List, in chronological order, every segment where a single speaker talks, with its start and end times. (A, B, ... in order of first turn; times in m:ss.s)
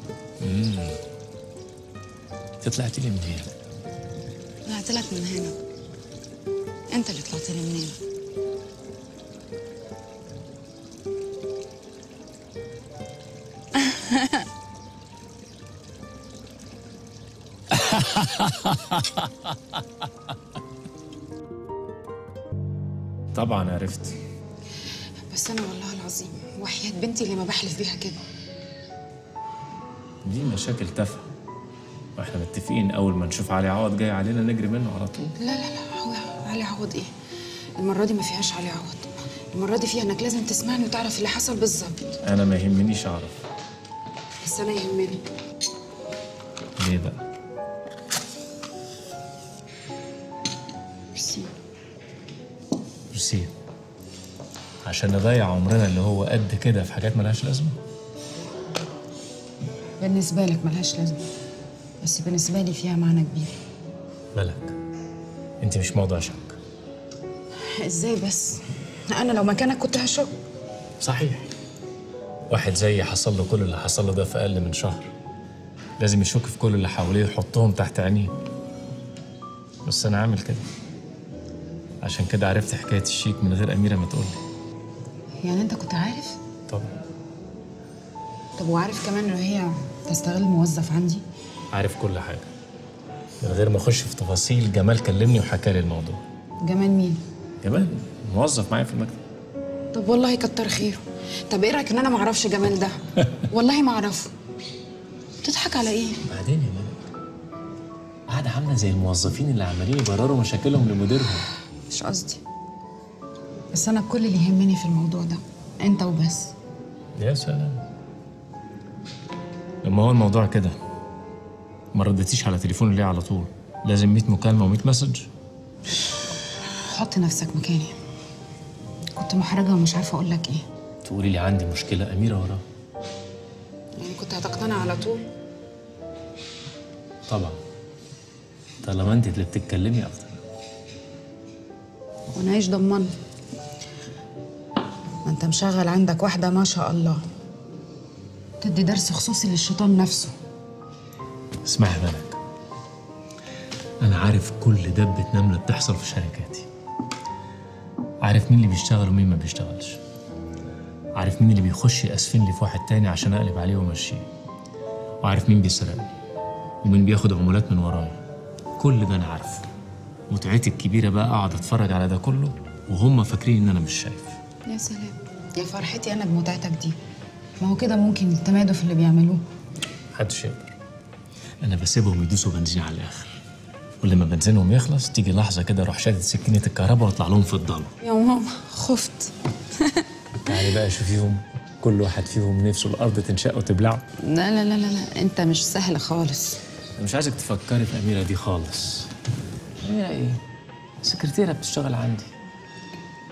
0:00.4-0:01.0 A
0:02.6-0:03.5 A
0:04.6-0:05.6 B
0:06.9-0:08.0 B
0:13.8-0:14.4 B
0:17.7-0:19.3 A
0:23.3-0:24.1 A
0:25.3-0:28.2 B
0:30.2-0:31.3 A
0:32.2-0:35.4 A
0:35.4-0:37.1 B
0:37.8-0:42.2 B
0:42.2-0:43.4 A
0:44.4-0:45.2 B
0:46.8-0:47.2 A
0:51.1-0:51.5 B
0:53.1-0:53.5 A
0:54.8-0:57.8 A
1:00.0-1:01.2 B
1:02.0-1:03.5 B
1:04.3-1:04.7 A
1:05.6-1:06.6 A
1:07.8-1:10.3 B
1:11.0-1:11.5 A
1:12.5-1:15.1 A
1:16.0-1:18.3 A
1:19.8-1:20.6 A
1:22.0-1:24.4 A
1:25.4-1:26.4 B
1:28.6-1:31.2 B
1:31.7-1:32.5 A
1:33.4-1:36.2 A
1:36.6-1:37.2 B
1:37.6-1:39.2 A
1:39.9-1:44.3 B
1:45.4-1:46.2 B
1:46.2-1:47.0 A
1:48.3-1:51.5 A
1:51.9-1:52.4 B
1:53.7-1:56.5 B
1:57.2-1:57.8 A
1:59.8-2:00.7 A
2:01.9-2:05.3 A
2:06.6-2:07.9 B
2:09.2-2:10.6 B
2:11.0-2:12.6 A
2:14.0-2:15.2 B
2:17.3-2:17.6 A
2:18.8-2:20.4 A
2:22.3-2:23.1 B
2:25.2-2:27.2 B
2:28.6-2:30.3 B
2:31.6-2:32.4 A
2:34.0-2:36.7 A
2:38.2-2:40.0 A
2:41.2-2:44.2 A
2:45.2-2:46.1 A
2:46.8-2:48.2 A
2:48.8-2:49.7 A
2:50.3-2:54.4 A
2:54.7-2:57.0 B
2:57.6-2:59.4 B
3:00.1-3:00.7 A
3:01.6-3:03.4 A
3:04.0-3:07.9 A
3:08.0-3:10.1 B
3:10.5-3:14.0 A
3:14.2-3:16.6 B
3:17.0-3:19.1 A
3:19.8-3:20.4 A
3:21.0-3:22.3 A